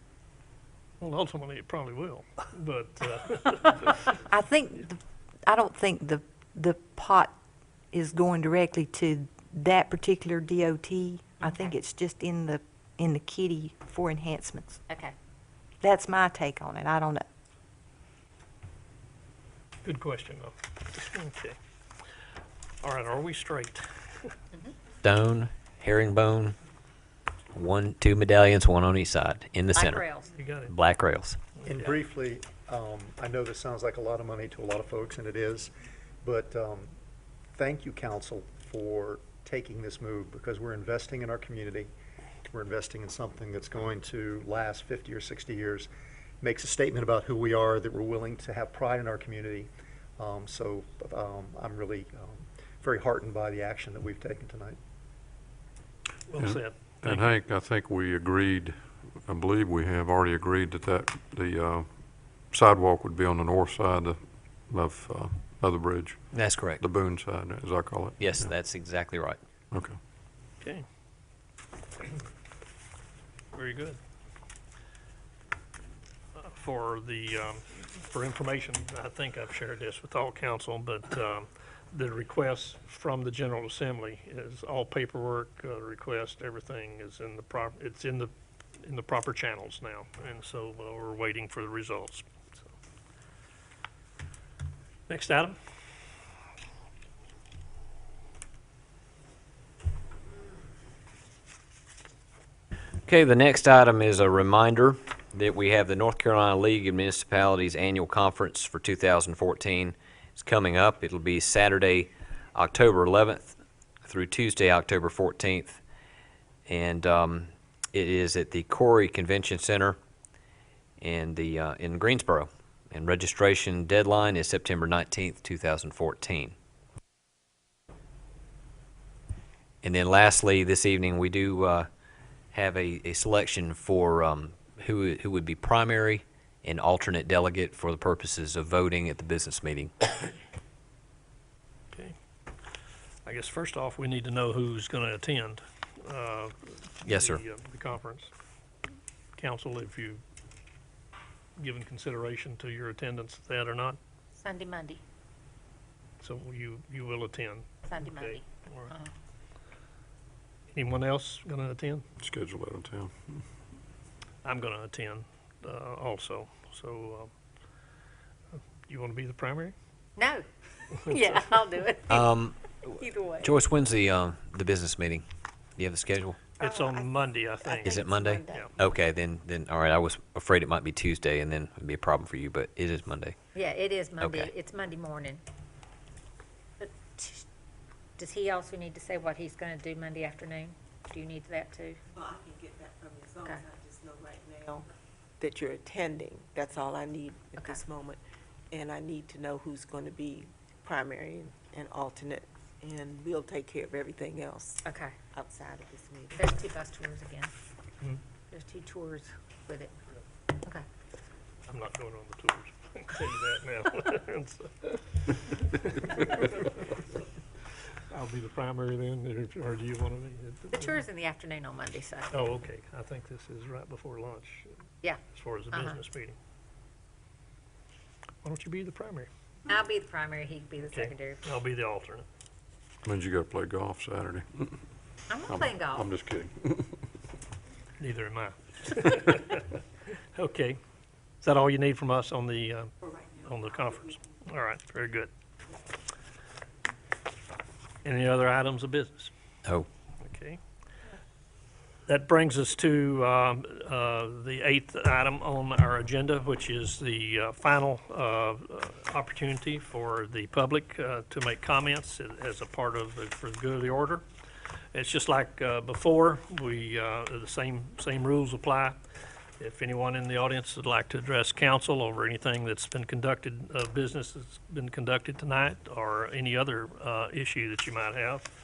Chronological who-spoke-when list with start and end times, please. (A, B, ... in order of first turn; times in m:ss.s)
0:01.0-0:04.1 A
0:04.3-0:07.3 B
0:07.9-0:14.8 B
0:11.4-0:11.8 C
0:14.9-0:15.2 C
0:15.8-0:17.3 B
0:19.8-0:21.6 A
0:22.8-0:24.3 A
0:25.0-0:26.6 D
0:27.5-0:30.0 D
0:29.8-0:30.3 C
0:30.4-0:30.7 A
0:30.7-0:31.4 D
0:31.6-0:32.0 A
0:31.7-0:35.7 E
0:36.2-0:36.9 E
0:37.5-0:41.9 E
0:42.5-0:45.9 E
0:46.4-0:54.8 E
0:56.3-0:57.3 A
0:56.4-1:08.6 F
1:06.3-1:06.8 D
1:08.2-1:09.4 D
1:09.7-1:10.0 F
1:13.5-1:14.0 A
1:16.4-1:32.7 A
1:35.1-1:35.6 A
1:43.1-1:55.8 D
1:56.7-2:00.0 D
2:01.0-2:06.5 D
2:09.8-2:11.9 D
2:12.5-2:19.9 D
2:23.2-2:28.3 A
2:27.0-2:27.4 D
2:29.4-2:30.2 A
2:31.6-2:34.0 A
2:34.4-2:35.0 C
2:36.2-2:38.9 A
2:37.8-2:39.1 C
2:40.7-2:42.0 A
2:42.2-2:43.4 F
2:44.4-2:47.3 A
2:48.9-2:49.8 A
2:50.2-2:52.4 C
2:52.1-2:52.7 D
2:52.9-2:53.5 C
2:53.4-2:55.2 D
2:55.8-2:56.4 D
2:56.6-2:58.7 G
2:56.6-2:57.9 A
2:57.8-3:03.4 D
2:58.5-2:58.7 A
3:03.5-3:05.4 C
3:04.2-3:04.5 D
3:06.8-3:07.4 C
3:08.2-3:12.0 C
3:12.2-3:14.9 G
3:15.4-3:26.5 G
3:24.8-3:25.1 C
3:26.3-3:27.5 C
3:28.5-3:29.9 C
3:31.7-3:36.7 A
3:38.1-3:41.0 A
3:40.7-3:42.4 C
3:42.3-3:44.7 A
3:45.0-3:46.0 C
3:45.3-3:46.4 A
3:48.4-3:49.3 A
3:49.7-3:51.4 C
3:50.9-3:52.2 A
3:53.1-3:54.8 F
3:55.3-3:56.1 C
3:55.5-3:57.0 F
3:58.0-3:59.8 A
4:00.4-4:00.8 A
4:01.4-4:05.3 A
4:08.0-4:09.3 A
4:10.2-4:10.6 A
4:12.1-4:24.2 A
4:24.9-4:29.0 A
4:29.6-4:38.5 A